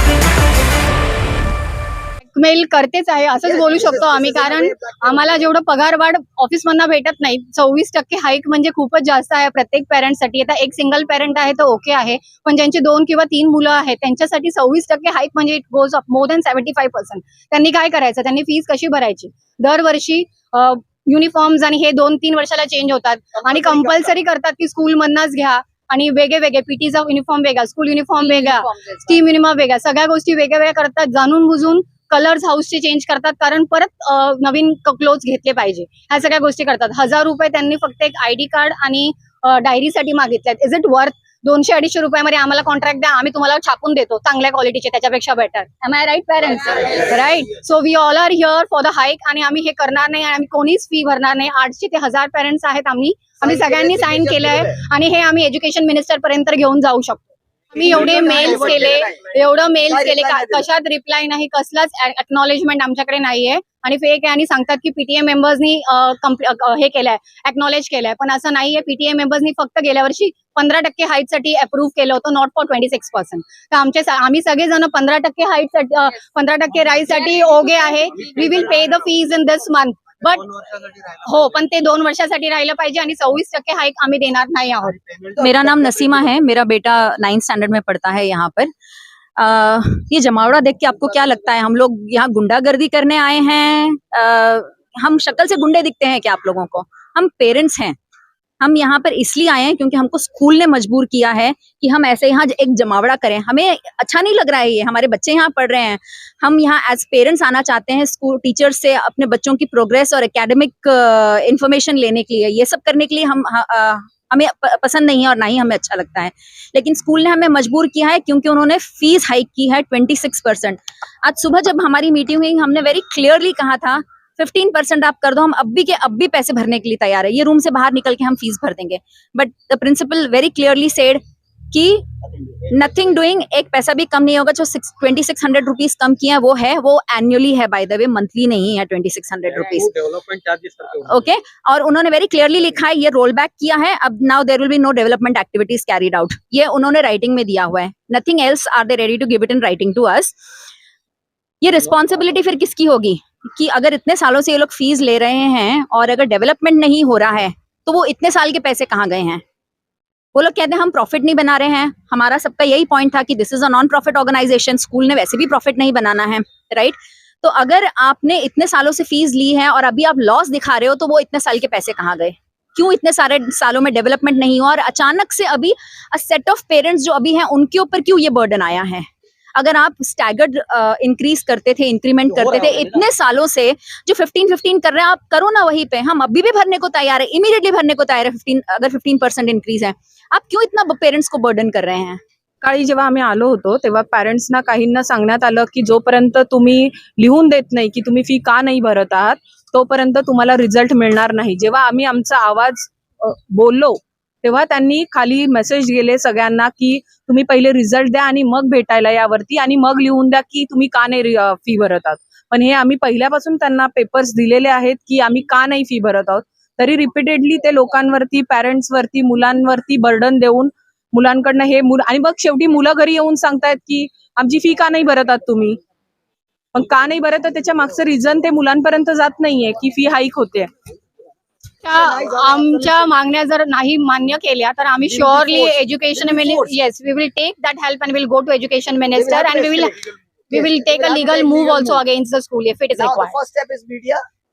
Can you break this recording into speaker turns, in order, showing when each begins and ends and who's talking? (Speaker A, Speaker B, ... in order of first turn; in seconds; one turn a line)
Speaker A: 2.3-80.5
Speaker B: 3.5-5.2
Speaker C: 28.3-29.0
Speaker B: 53.7-54.7
Speaker D: 57.8-59.0
Speaker B: 59.9-60.6
Speaker D: 77.2-79.0
Speaker D: 80.5-81.4
Speaker A: 81.2-85.0
Speaker D: 85.1-86.0
Speaker C: 85.4-88.7
Speaker C: 89.4-98.0
Speaker C: 98.6-132.0
Speaker C: 132.7-139.9
Speaker D: 139.6-141.1
Speaker C: 141.1-150.3
Speaker C: 151.6-159.4
Speaker C: 160.3-192.2
Speaker E: 192.6-225.8
Speaker E: 226.7-230.7
Speaker A: 231.8-243.3
Speaker B: 232.2-232.9
Speaker B: 235.2-235.7
Speaker B: 239.1-240.0
Speaker B: 240.6-241.9
Speaker B: 243.0-244.2